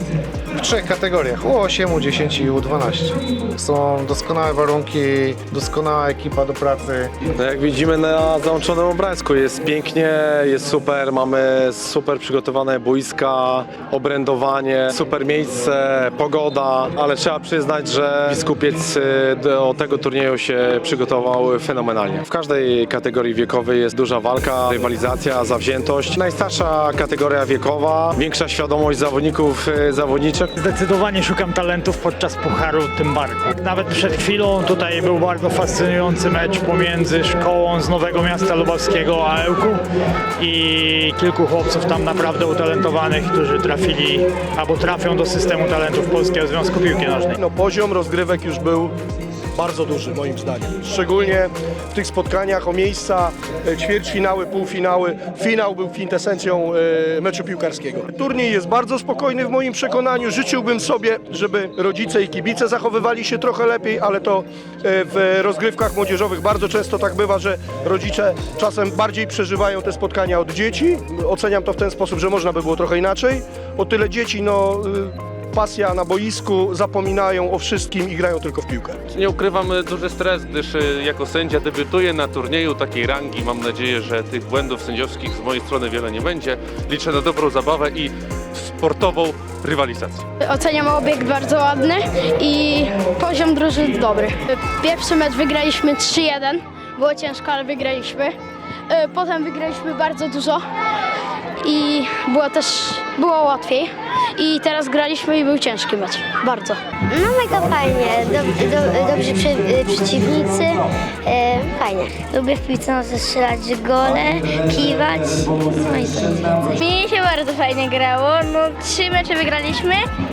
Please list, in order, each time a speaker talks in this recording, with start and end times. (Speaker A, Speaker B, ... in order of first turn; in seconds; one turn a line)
Speaker A: 0.5-7.1
Speaker B: 7.3-30.5
Speaker C: 30.6-39.8
Speaker C: 40.4-47.4
Speaker D: 47.4-49.0
Speaker D: 49.5-79.0
Speaker E: 79.1-90.2
Speaker F: 90.4-98.3
Speaker F: 98.9-100.6
Speaker F: 101.6-106.8
Speaker G: 107.1-116.7
Speaker F: 116.7-120.0